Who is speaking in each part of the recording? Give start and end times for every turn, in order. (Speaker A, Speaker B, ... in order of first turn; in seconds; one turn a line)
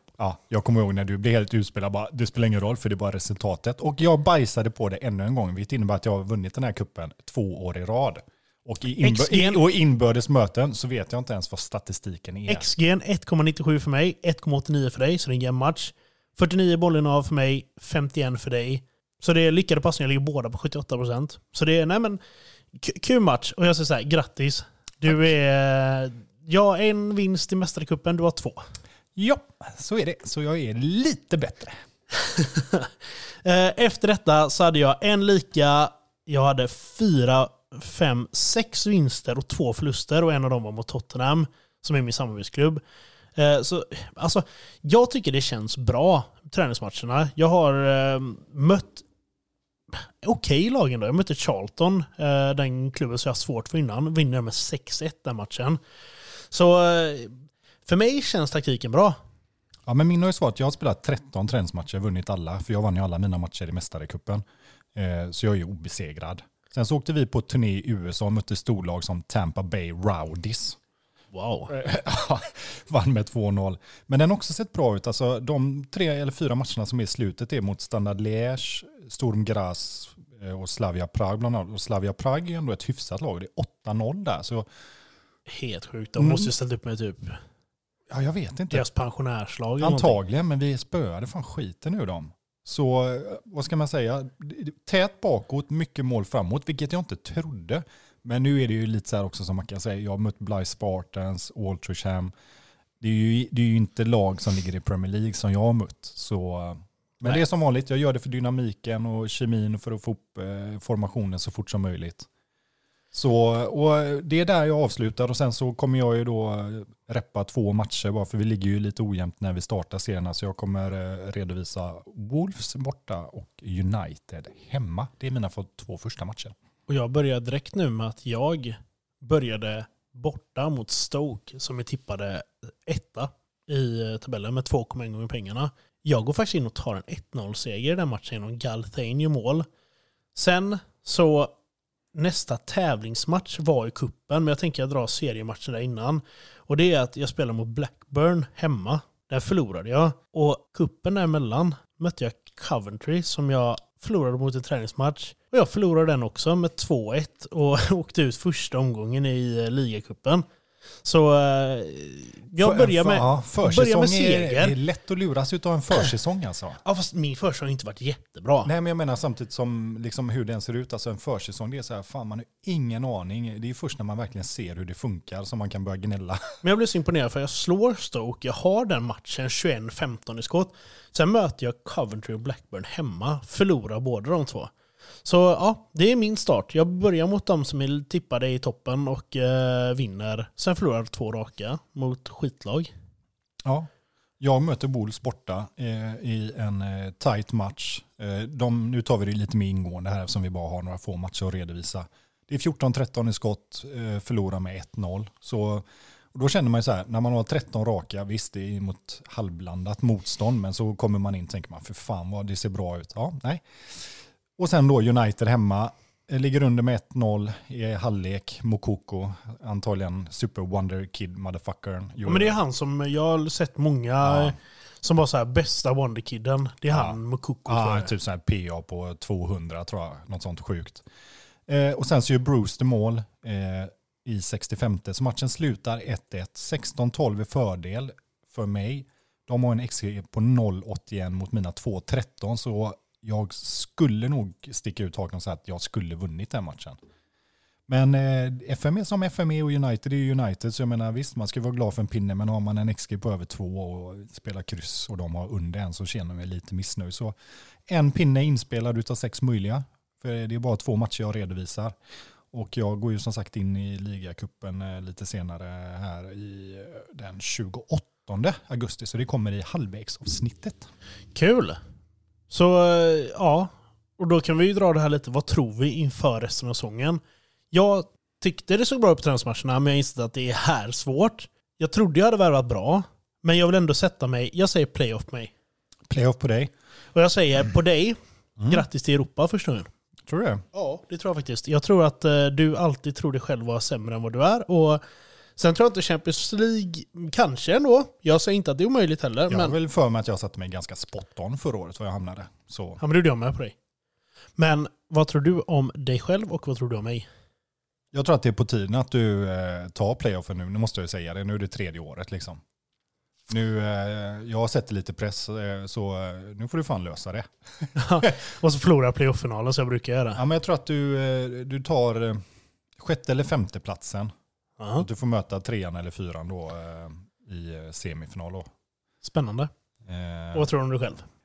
Speaker A: 0.2-12.7
Speaker B: 9.0-9.6
Speaker B: 12.5-22.2
Speaker B: 22.7-28.6
Speaker A: 29.1-31.8
Speaker B: 32.2-42.8
Speaker B: 43.4-49.0
Speaker B: 49.9-55.8
Speaker B: 56.3-57.3
Speaker B: 57.9-59.2
Speaker A: 59.9-64.4
Speaker A: 64.9-70.8
Speaker B: 71.3-71.7
Speaker A: 71.7-84.7
Speaker B: 85.5-87.4
Speaker A: 86.2-86.5
Speaker A: 88.1-88.8
Speaker B: 88.7-90.2
Speaker A: 89.8-102.3
Speaker A: 103.0-112.3
Speaker A: 113.1-126.5
Speaker B: 126.9-139.7
Speaker B: 140.3-141.5
Speaker B: 142.1-160.4
Speaker B: 161.0-164.7
Speaker A: 162.6-166.8
Speaker B: 166.8-168.7
Speaker A: 168.6-176.5
Speaker B: 176.6-184.7
Speaker B: 185.2-192.9
Speaker A: 194.4-222.6
Speaker B: 222.2-228.1
Speaker A: 224.2-224.5
Speaker A: 226.9-231.0
Speaker A: 231.7-247.0
Speaker A: 247.9-257.3
Speaker A: 257.9-261.9
Speaker A: 262.5-270.9
Speaker B: 271.3-271.8
Speaker B: 272.5-285.5
Speaker A: 286.1-286.7
Speaker B: 287.1-288.2
Speaker A: 288.6-288.8
Speaker B: 288.7-289.9
Speaker A: 290.3-290.6
Speaker B: 290.7-295.0
Speaker B: 295.6-299.7
Speaker A: 299.5-303.0
Speaker B: 303.0-303.7
Speaker B: 304.6-307.3
Speaker A: 308.1-312.6
Speaker A: 313.5-318.3
Speaker B: 317.9-320.4
Speaker A: 320.4-322.4
Speaker A: 323.0-324.3
Speaker B: 324.8-325.1
Speaker A: 324.9-328.7
Speaker B: 329.2-329.7
Speaker A: 330.1-330.7
Speaker B: 330.5-331.2